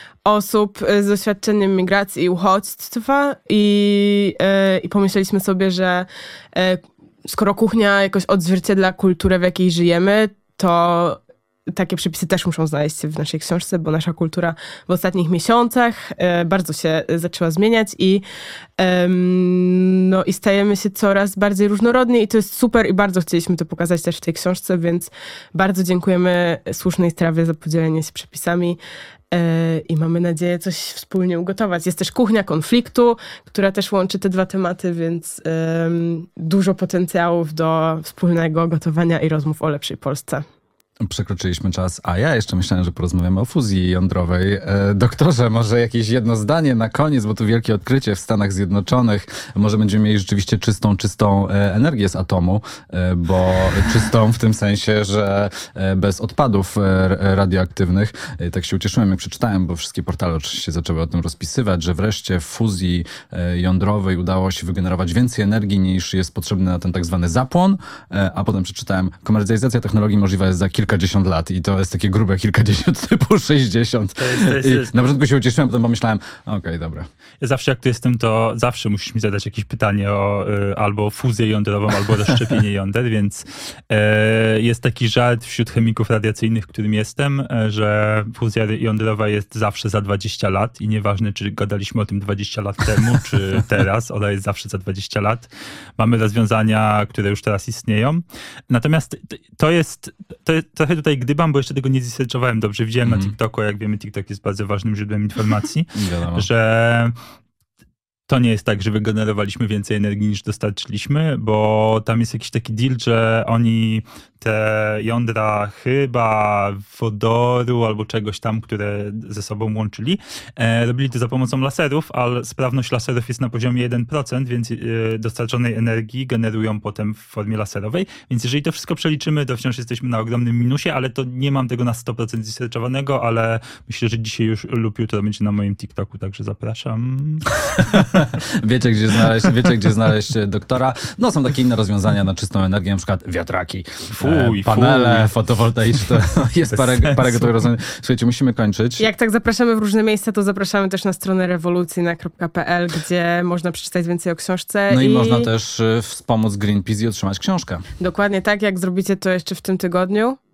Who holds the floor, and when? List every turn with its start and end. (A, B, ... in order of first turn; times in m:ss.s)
0:00.2-0:18.2 A
0:18.8-0:28.8 A
0:29.3-0:40.4 A
0:41.0-1:17.1 B
1:14.2-1:15.1 C
1:17.4-1:47.1 C
1:43.0-1:43.3 B
1:46.0-1:46.5 B
1:48.3-2:17.5 C
2:17.6-2:29.1 B
2:24.1-2:25.3 C
2:26.7-2:27.5 C
2:29.0-2:35.5 A
2:34.9-2:37.9 B
2:38.0-2:40.4 A